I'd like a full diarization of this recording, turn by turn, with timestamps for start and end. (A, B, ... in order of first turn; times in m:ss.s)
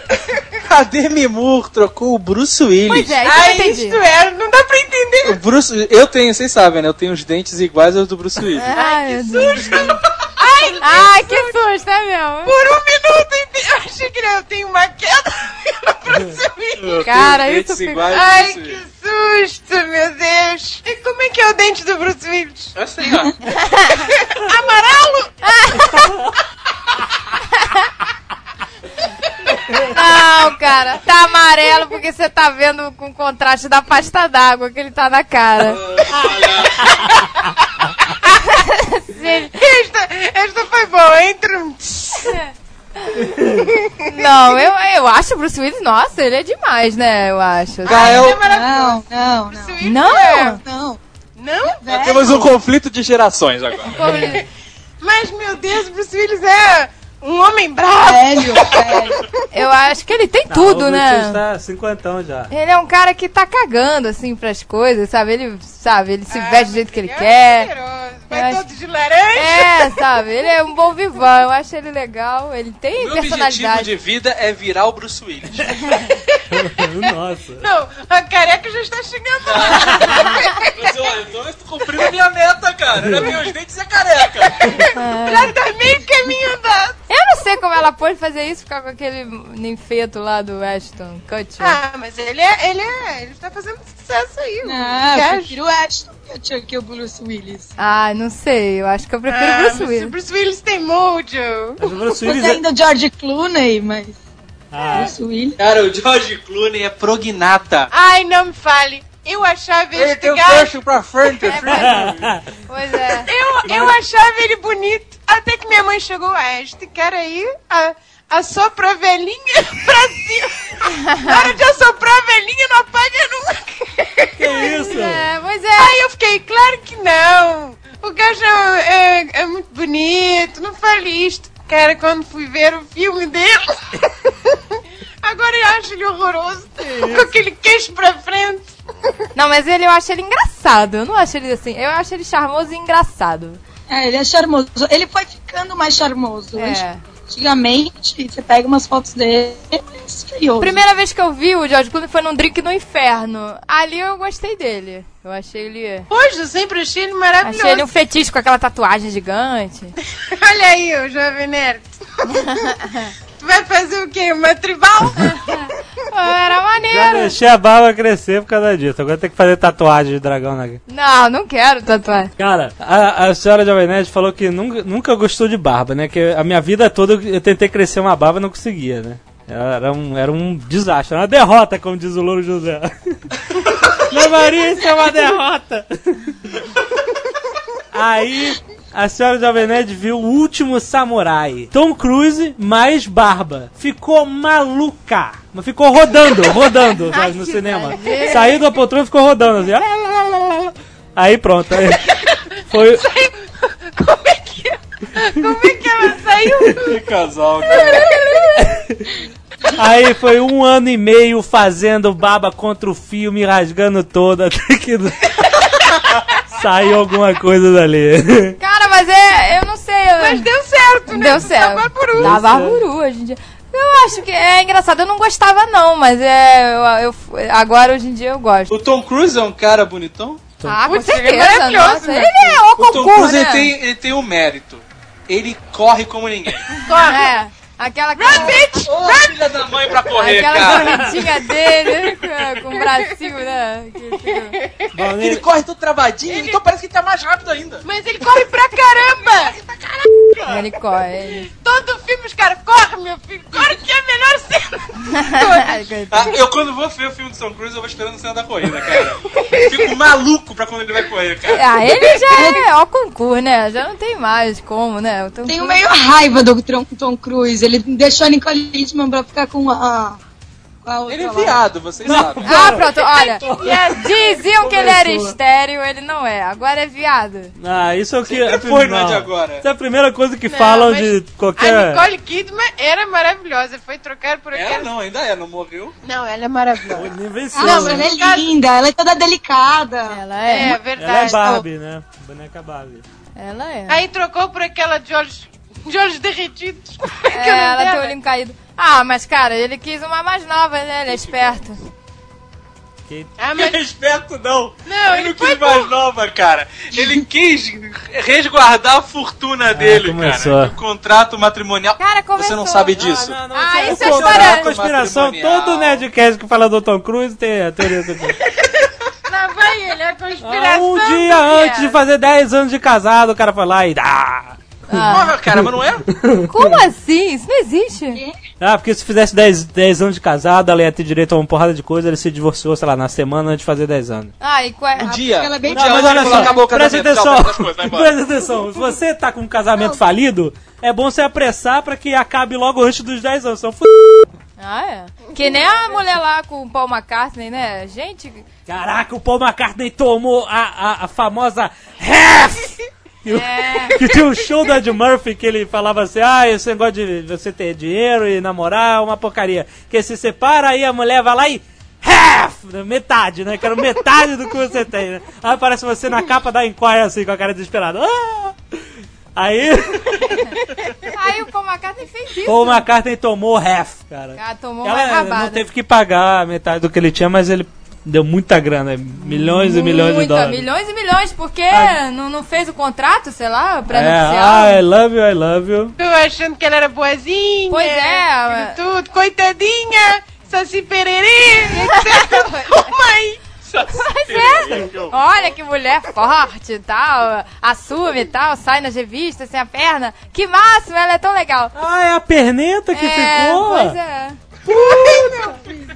0:00.6-0:03.2 A
0:02.9-0:04.0 B
0:03.2-0:05.4 C
0:05.2-0:08.7 A
0:08.6-0:10.0 B
0:08.7-0:11.6 C
0:10.8-0:12.5 B
0:12.4-0:17.0 C
0:16.8-0:18.8 A
0:17.0-0:18.1 B
0:18.1-0:22.7 C
0:22.8-0:23.3 A
0:23.5-0:24.0 B
0:24.2-0:25.3 C
0:25.4-0:26.1 B
0:26.0-0:26.3 D
0:27.6-0:27.8 B
0:29.9-0:35.8 B
0:35.6-0:37.0 A
0:38.5-0:39.5 B
0:39.2-0:42.4 C
0:43.3-0:43.7 D
0:44.0-0:48.2 B
0:47.8-0:48.4 A
0:47.8-0:50.6 C
0:48.4-0:49.8 E
0:49.8-0:50.6 B
0:50.6-0:51.0 E
0:51.4-0:52.1 C
0:51.8-0:52.4 E
0:51.9-0:54.0 A
0:53.9-0:54.4 B
0:54.0-0:54.4 C
0:55.0-0:59.0 C
0:58.0-0:59.3 E
0:59.5-1:01.4 B
1:00.5-1:02.5 D
1:02.5-1:07.7 B
1:06.3-1:09.7 C
1:08.3-1:08.6 B
1:09.4-1:13.9 B
1:13.0-1:15.8 A
1:16.5-1:17.6 D
1:17.6-1:20.9 C
1:19.4-1:24.7 A
1:23.0-1:23.3 D
1:24.6-1:27.0 C
1:24.9-1:25.5 B
1:27.1-1:31.8 B
1:31.6-1:35.6 C
1:34.6-1:37.7 E
1:37.8-1:40.1 B
1:39.3-1:41.8 C
1:41.8-1:42.6 D
1:42.2-1:44.2 E
1:44.7-1:45.1 D
1:44.9-1:45.6 E
1:45.6-1:47.9 A
1:47.9-1:50.7 C
1:49.9-1:52.3 A
1:51.4-1:52.1 B
1:51.8-1:52.4 D
1:52.7-1:53.3 B
1:53.2-2:14.0 C
1:53.7-1:53.9 D
2:04.4-2:05.2 D
2:15.2-2:18.7 C
2:16.8-2:17.3 D
2:19.3-2:23.6 B
2:23.9-2:30.8 E
2:26.5-2:27.0 B
2:30.6-2:36.1 B
2:36.1-2:37.9 C
2:37.4-2:39.9 B
2:40.3-2:42.0 C
2:42.3-2:43.1 B
2:43.4-2:45.7 C
2:46.1-2:47.3 B
2:46.8-2:50.8 D
2:50.9-2:52.3 B
2:52.4-3:03.3 D
3:04.0-3:06.4 D
3:07.9-3:23.0 D
3:17.1-3:18.6 B
3:22.8-3:27.0 C
3:26.8-3:28.0 A
3:27.9-3:28.4 B
3:28.6-3:29.1 D
3:29.7-3:35.2 D
3:36.5-3:38.6 D
3:38.6-3:40.5 B
3:40.2-3:42.3 C
3:41.1-3:48.7 B
3:42.2-3:42.8 D
3:48.7-3:50.4 A
3:50.6-3:53.7 B
3:50.8-3:52.6 C
3:52.8-3:56.7 A
3:56.8-3:57.3 C
3:56.9-3:58.6 B
3:58.2-3:59.3 C
3:58.4-4:00.9 A
4:00.2-4:04.6 B
4:00.8-4:01.1 D
4:04.5-4:04.9 C
4:04.9-4:05.4 D
4:05.2-4:07.8 A
4:06.2-4:06.6 C
4:07.8-4:09.6 C
4:10.5-4:11.5 B
4:11.4-4:15.9 C
4:15.0-4:16.4 B
4:16.1-4:21.6 A
4:19.4-4:19.7 C
4:21.5-4:25.8 B
4:22.3-4:22.6 E
4:25.5-4:30.2 E
4:30.8-4:31.6 E
4:31.1-4:32.5 A
4:32.0-4:35.4 D
4:32.4-4:37.5 B
4:33.4-4:34.2 C
4:37.6-4:42.0 D
4:38.3-4:39.6 A
4:40.5-4:44.9 C
4:44.5-4:46.0 A
4:46.0-4:48.5 C
4:46.9-4:48.1 D
4:47.5-4:50.2 E
4:50.1-4:50.8 B
4:50.4-4:51.4 C
4:51.0-4:53.0 D
4:51.1-4:51.6 E
4:53.4-4:54.0 B
4:53.9-4:58.1 C
4:57.3-5:01.8 B
5:03.1-5:03.3 D
5:03.4-5:03.8 C
5:03.6-5:16.0 A
5:04.8-5:05.9 C
5:09.7-5:10.7 D
5:12.0-5:13.0 B
5:12.9-5:18.4 D
5:13.5-5:14.7 B
5:19.3-5:21.9 C
5:20.4-5:26.8 D
5:24.9-5:25.3 B
5:25.1-5:26.0 A
5:26.5-5:28.2 B
5:28.6-5:34.3 D
5:34.4-5:35.1 B
5:35.0-5:36.6 E
5:35.0-5:38.2 A
5:35.7-5:44.3 D
5:44.6-5:48.4 B
5:48.7-6:08.8 D
5:53.3-5:54.0 B
6:09.4-6:10.5 D
6:11.1-6:12.8 B
6:12.4-6:20.6 D
6:14.4-6:15.6 B
6:19.2-6:24.8 B
6:21.7-6:22.0 D
6:23.9-6:26.0 D
6:26.0-6:33.5 C
6:27.7-6:28.8 B
6:31.7-6:32.9 B
6:33.7-6:35.2 A
6:33.9-6:41.7 B
6:41.7-6:44.0 D
6:42.9-6:44.4 B
6:44.9-6:45.6 E